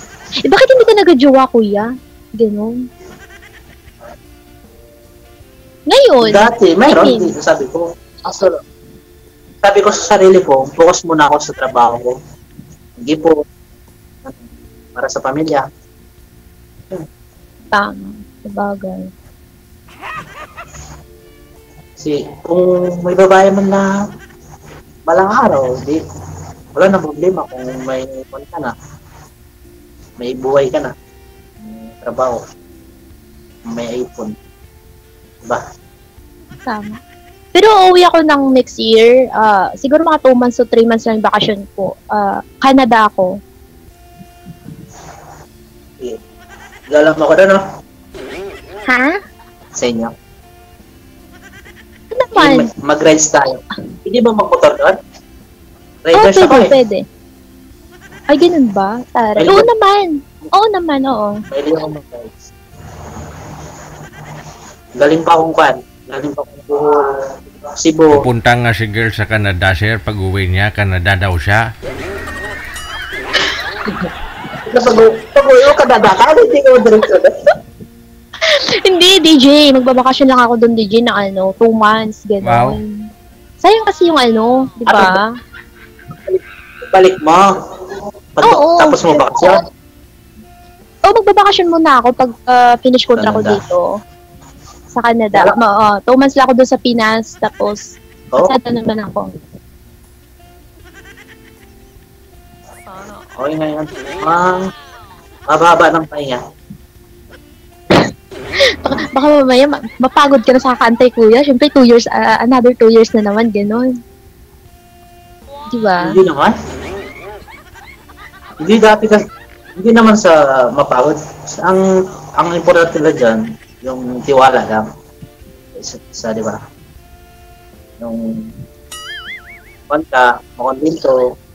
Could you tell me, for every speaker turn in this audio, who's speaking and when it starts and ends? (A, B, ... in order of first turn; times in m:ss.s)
0:00.5-0:01.9 A
0:02.4-0:02.7 A
0:05.9-0:07.3 A
0:06.2-0:08.6 B
0:09.6-0:12.1 B
0:13.0-0:13.3 B
0:14.9-0:15.6 B
0:17.7-0:19.1 A
0:22.0-0:23.8 B
0:25.1-0:26.0 B
0:26.8-0:28.7 B
0:30.2-0:30.9 B
0:31.6-0:32.4 B
0:33.7-0:34.3 B
0:36.7-0:37.0 A
0:37.5-0:43.3 A
0:46.9-0:47.6 B
0:49.8-0:50.1 B
0:52.1-0:52.7 A
0:52.4-0:54.9 B
0:56.0-0:56.7 B
0:56.1-0:57.0 A
0:58.3-1:01.4 A
0:59.4-0:59.7 B
1:01.5-1:02.5 B
1:05.0-1:08.1 B
1:08.1-1:11.6 C
1:14.7-1:17.3 B
1:18.5-1:22.8 A
1:22.4-1:22.7 C
1:23.6-1:25.2 A
1:24.9-1:25.1 B
1:26.1-1:27.4 B
1:28.4-1:29.6 B
1:28.4-1:29.6 A
1:31.1-1:33.8 A
1:33.2-1:33.6 B
1:34.9-1:37.9 A
1:38.4-1:39.3 A
1:43.4-1:44.7 B
1:45.5-1:46.4 B
1:48.8-1:53.8 A
1:55.7-1:56.2 A
1:56.0-1:56.5 B
1:58.6-1:59.2 B
1:59.8-2:01.8 B
2:02.4-2:04.8 B
2:05.7-2:06.6 B
2:08.0-2:08.5 B
2:09.9-2:11.2 B